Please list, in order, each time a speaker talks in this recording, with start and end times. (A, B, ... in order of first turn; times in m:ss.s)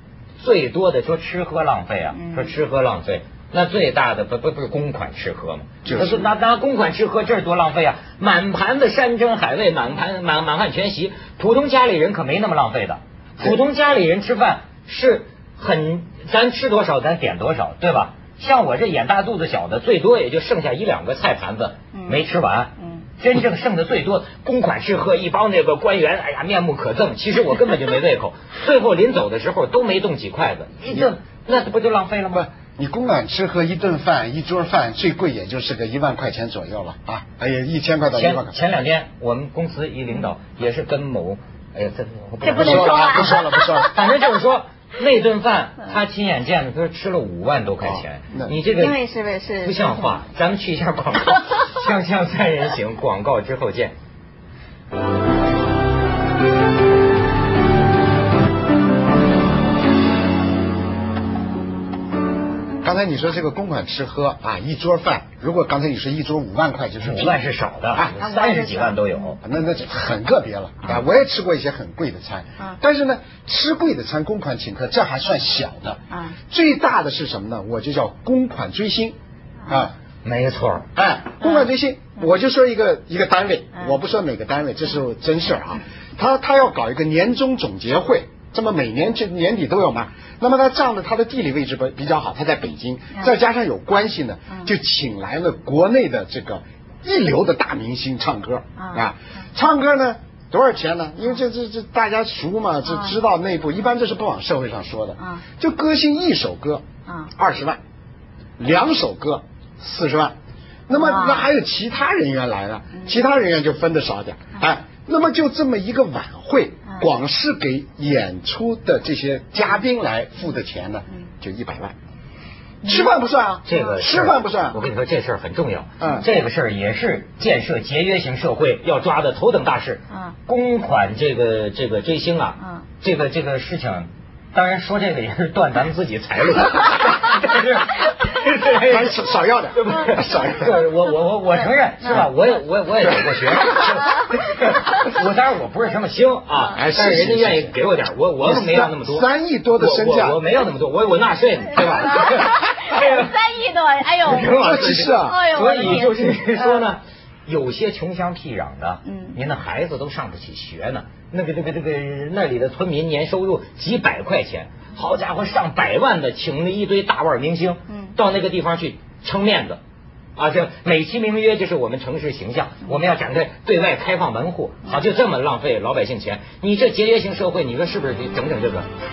0:00.4-0:32.5 A
0:02.1-0:02.5 B
0:05.8-0:06.3 C
0:21.9-0:23.0 B
0:32.3-0:38.5 C
0:38.1-0:49.0 A
0:42.4-0:43.9 B
0:42.4-0:43.9 C
0:47.8-0:48.5 C
0:48.7-0:50.2 B
0:49.6-0:53.9 A
1:02.8-1:07.4 C
1:07.0-1:09.4 A
1:08.2-1:09.4 B
1:09.4-1:19.1 C
1:19.7-1:19.9 C
1:20.2-1:20.8 A
1:20.9-1:46.8 C
1:21.4-1:21.7 B
1:38.8-1:39.1 B
1:42.8-1:43.2 B
1:47.0-1:47.3 B
1:47.4-1:47.8 C
1:48.6-1:50.3 C
1:50.9-2:01.9 C
1:51.0-1:51.4 B
2:02.8-2:03.1 B
2:02.8-2:04.8 C
2:03.6-2:29.3 A
2:06.0-2:06.3 C
2:10.1-2:10.4 B
2:12.6-2:12.8 B
2:18.9-2:20.8 C
2:26.7-2:27.8 C
2:28.4-2:30.4 C
2:29.8-2:33.3 A
2:31.8-2:36.8 B
2:34.2-2:49.8 A
2:34.6-2:35.9 C
2:39.0-2:39.4 B
2:47.9-2:48.2 B
2:50.4-2:58.9 A